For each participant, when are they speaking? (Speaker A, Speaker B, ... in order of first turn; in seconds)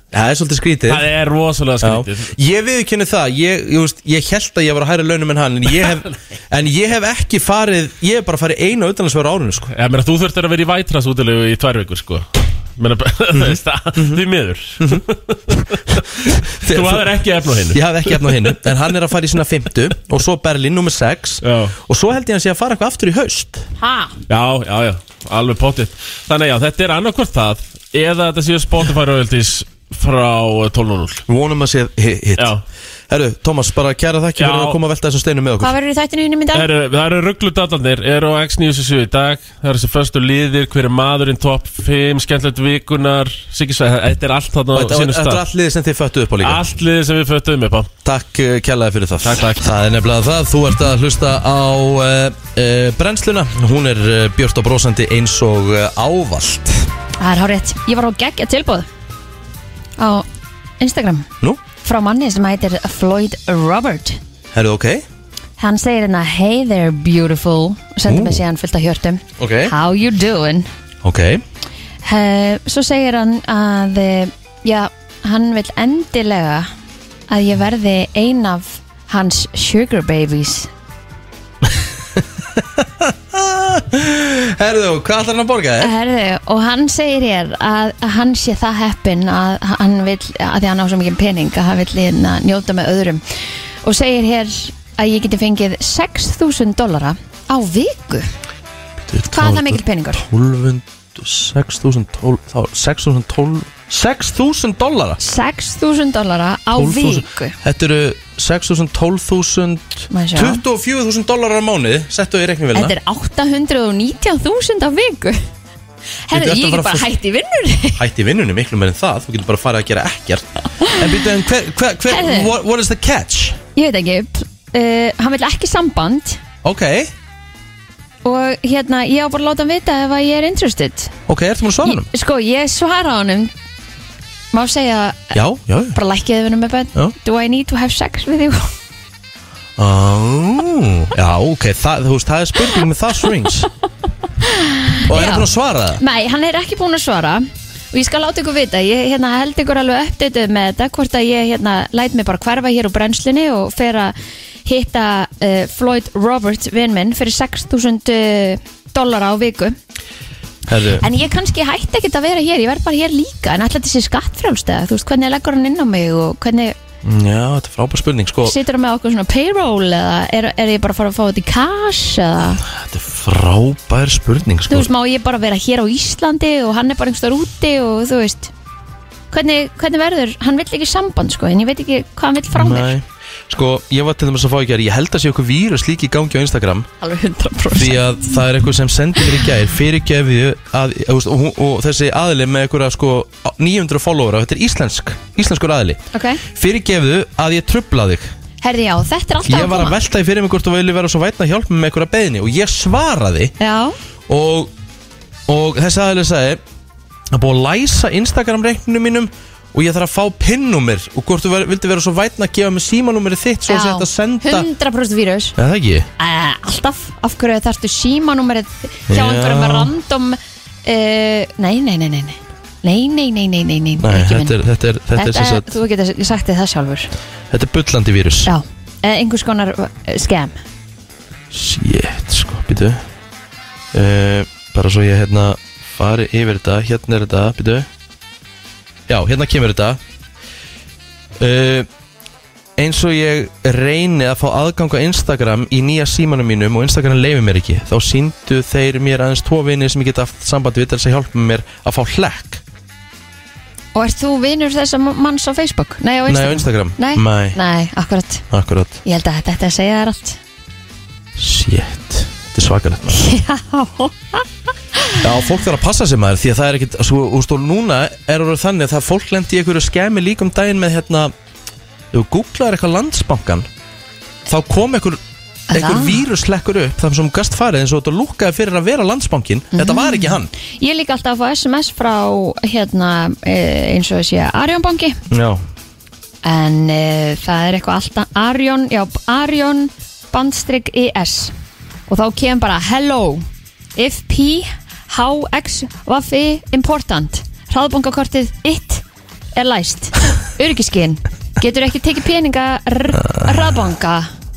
Speaker A: 0.1-1.0, 1.8-9.7, 13.3-14.2, 16.2-23.7, 31.3-32.5, 33.1-35.7, 44.7-46.6, 48.0-56.9, 64.5-65.0, 68.0-68.4, 69.4-69.7, 71.0-71.4, 81.7-85.9, 99.0-105.2, 106.7-112.9, 116.3-117.1, 118.0-123.6, 126.6-127.1, 131.3-132.1, 135.3-136.0, 139.8-143.7, 145.1-146.0, 160.7-161.0, 167.0-168.6, 172.6-174.9, 182.5-186.9, 187.7-198.3, 199.4-203.5, 204.3-204.7, 205.5-206.6, 207.3-214.7, 215.6-216.1, 219.1-219.9, 224.0-225.8, 227.5-228.5, 231.5-233.0, 233.9-237.9, 239.1-240.0, 241.4-241.9, 242.8-252.6, 256.3-257.6, 258.5-259.0, 261.4-263.2, 265.2-271.3, 272.1-273.7, 274.4-275.2, 275.7-280.5, 285.3-285.6, 303.1-303.8
Speaker B: 0.9-2.3, 9.7-19.0, 21.4-21.8, 24.3-31.2, 32.4-32.6, 34.4-34.8, 36.5-45.4, 46.4-47.9, 49.2-49.6
Speaker C: 23.8-24.1, 35.6-36.7, 57.2-58.9, 60.0-60.2, 60.8-61.3, 61.8-64.2, 65.6-70.7, 72.0-76.7, 77.3-80.7, 85.8-93.2, 93.8-98.3, 99.3-100.2, 105.2-107.6, 110.1-110.6, 112.7-115.4, 116.3-118.0, 120.8-121.1, 122.1-122.5, 123.7-126.4, 128.2-131.1, 131.8-133.5, 134.5-135.3, 135.9-138.7, 144.4-154.1, 154.7-159.8, 161.0-166.8, 168.4-172.6, 174.7-178.5, 179.3-182.9, 187.0-188.4, 196.1-196.4, 198.6-199.9, 203.6-203.9, 213.7-215.5, 216.2-224.6, 225.1-227.1, 228.4-230.6, 253.9-258.4, 259.0-260.4, 263.1-265.2, 275.7-276.2, 279.7-285.2, 286.4-291.5, 292.1-293.4, 293.9-299.0, 299.5-304.3